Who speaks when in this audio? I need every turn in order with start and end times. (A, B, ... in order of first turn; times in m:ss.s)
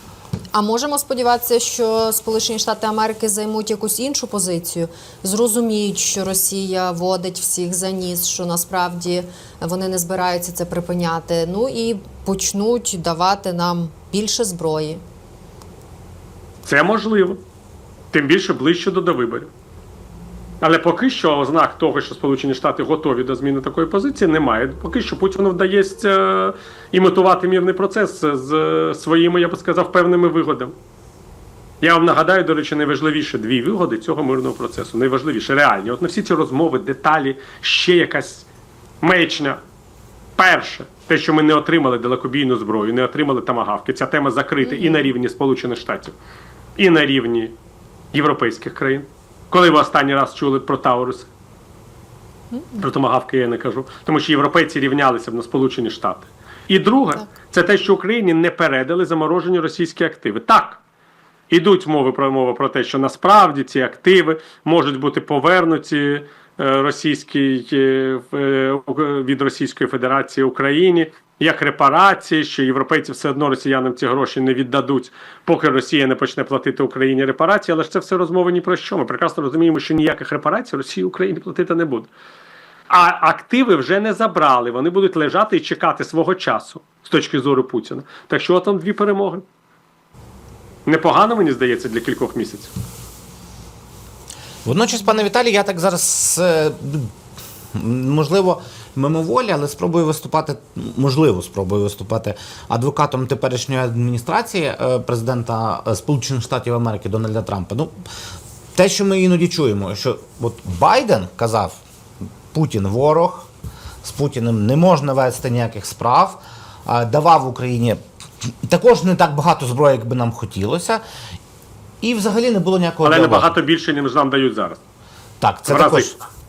0:00.5-0:15.0 A
0:16.7-0:17.4 B
0:18.1-0:19.5 B
0:20.6-0:30.7 B
0:31.8-0:38.5 B
0:39.0-0:39.6 B
0:40.4-0:46.2 B
0:44.7-0:45.1 A
0:46.8-0:47.5 B
0:48.1-0:51.3 B
0:52.8-1:00.8 B
1:01.5-1:22.1 B
1:22.9-1:29.4 B
1:30.9-1:32.7 B
1:34.6-1:37.1 C
1:37.7-1:47.9 C
1:48.8-1:51.8 C
1:52.5-1:53.5 C
1:54.0-1:58.0 C
1:58.7-2:01.0 C
2:02.0-2:03.5 C
2:03.0-2:04.8 B
2:05.4-2:06.2 C
2:05.7-2:06.1 B